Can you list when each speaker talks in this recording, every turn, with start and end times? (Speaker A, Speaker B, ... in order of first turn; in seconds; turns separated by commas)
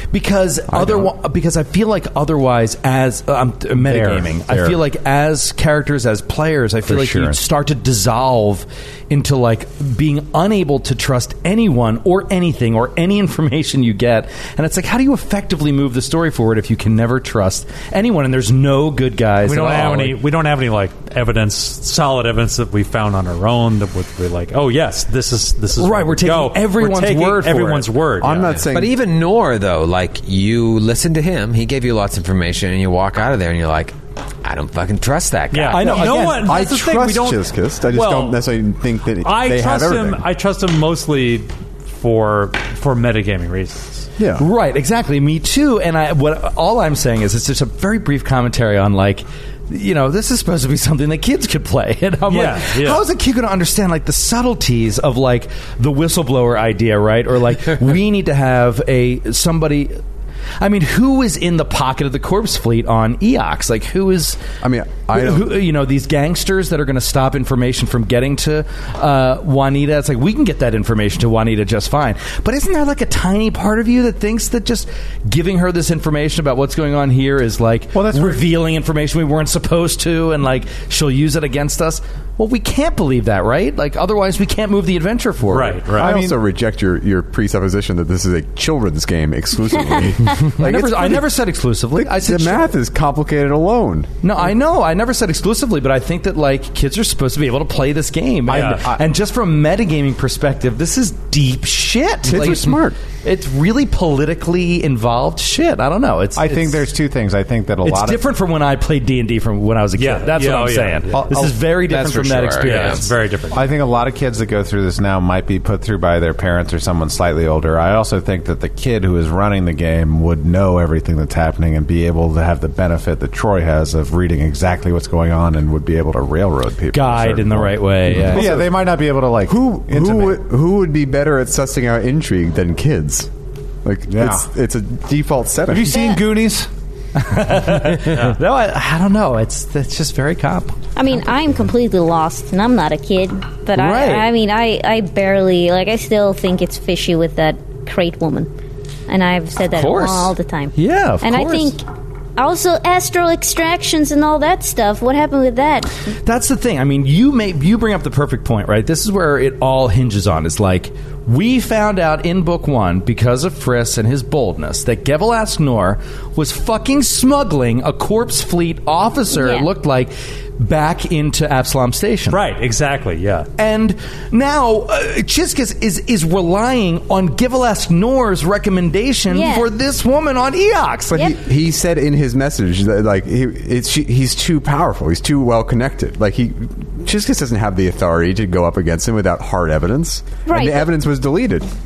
Speaker A: 0.1-20.2, Speaker B: 0.7-1.1, Speaker C: 3.7-4.8, Speaker C: 6.8-7.4, Speaker D: 19.4-28.6, Speaker A: 25.8-27.9, Speaker B: 28.2-28.9, Speaker E: 28.7-36.1, Speaker D: 35.5-38.4, Speaker A: 35.7-36.6, Speaker B: 36.1-40.2, Speaker D: 39.2-44.0, Speaker B: 44.2-44.4, Speaker A: 44.4-60.0, Speaker D: 52.3-53.0, Speaker A: 60.6-64.4, Speaker B: 64.6-65.6, Speaker A: 65.1-86.0, Speaker C: 77.9-78.5, Speaker D: 85.5-86.1, Speaker B: 86.0-91.3, Speaker C: 86.0-86.4, Speaker A: 90.5-92.7, Speaker B: 91.9-94.1, Speaker A: 94.2-106.9, Speaker C: 98.5-99.0, Speaker B: 102.2-103.0, Speaker C: 106.3-108.2, Speaker A: 107.8-113.1, Speaker D: 110.0-111.2, Speaker C: 111.1-111.6, Speaker E: 111.8-113.1, Speaker D: 112.6-113.7, Speaker C: 113.5-130.4, Speaker A: 126.9-128.7, Speaker B: 128.3-128.7, Speaker B: 129.5-133.3, Speaker B: 133.8-136.1, Speaker C: 134.1-134.5, Speaker C: 135.7-136.7, Speaker A: 137.2-140.8, Speaker F: 140.9-148.5, Speaker A: 143.7-144.3, Speaker F: 149.1-151.8, Speaker A: 149.7-151.8, Speaker F: 152.4-155.9, Speaker A: 156.2-172.4, Speaker F: 169.3-169.7, Speaker D: 172.3-173.5, Speaker A: 173.6-181.3, Speaker F: 179.3-179.7, Speaker B: 181.1-191.7, Speaker F: 190.4-190.9